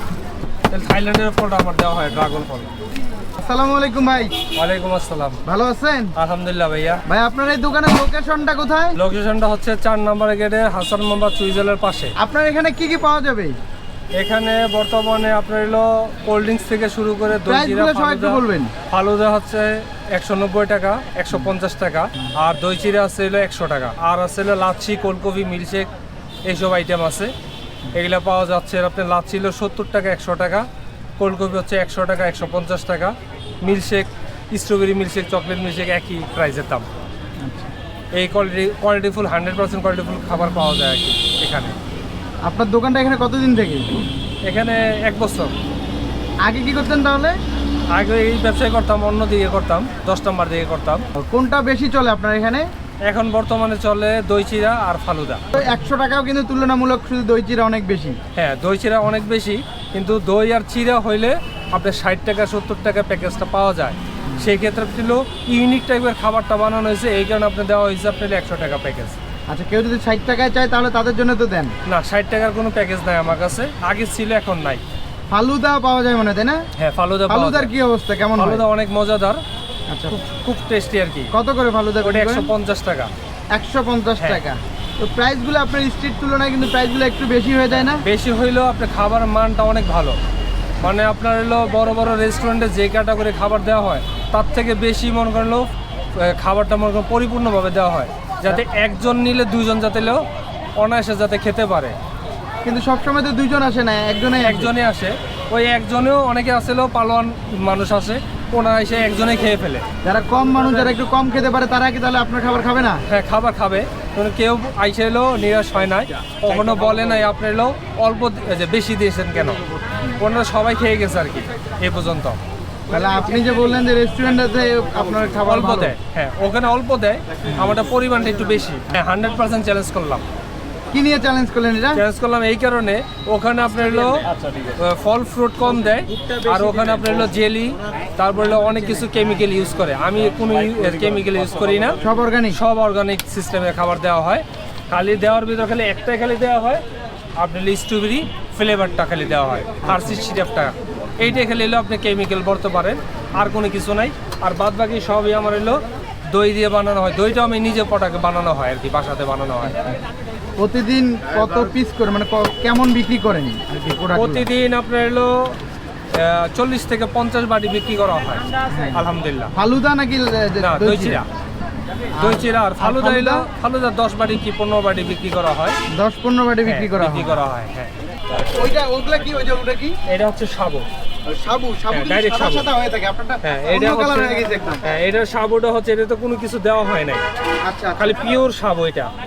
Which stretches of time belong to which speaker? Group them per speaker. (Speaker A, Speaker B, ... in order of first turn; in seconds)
Speaker A: 0.7-2.7, 4.6-5.4, 6.2-7.0, 9.0-12.2, 14.2-25.9, 26.5-27.3, 27.9-30.7, 31.2-36.9, 38.2-41.8, 44.5-45.5, 48.0-51.0, 53.1-55.4, 58.4-69.2, 71.9-74.8, 76.8-77.7, 78.4-79.4, 80.2-81.3, 82.0-83.1, 88.0-90.2, 90.8-100.2, 100.8-102.0, 104.4-109.8, 113.1-119.6, 120.2-122.4, 125.5-130.2, 132.0-142.0, 142.5-146.8, 147.4-159.8, 164.2-165.6, 166.1-169.5, 170.6-171.3, 172.2-175.8, 176.7-177.9, 180.1-180.8, 181.9-182.7, 183.4-187.2, 188.0-189.1
Speaker B: 3.4-4.3, 5.5-6.1, 7.1-9.0, 12.2-13.6, 17.4-18.7, 37.4-37.7, 42.5-44.0, 46.4-47.4, 51.2-52.7, 55.5-58.2, 69.5-71.7, 75.3-76.6, 77.3-78.6, 79.9-80.2, 81.3-82.5, 83.5-88.0, 102.6-104.7, 110.0-113.0, 122.9-126.0, 127.5-127.8, 130.9-132.0, 142.0-142.6, 149.8-150.2, 160.6-164.5, 168.7-171.2, 172.2-173.5, 175.9-177.4, 178.5-180.0, 181.3-185.0, 187.7-188.2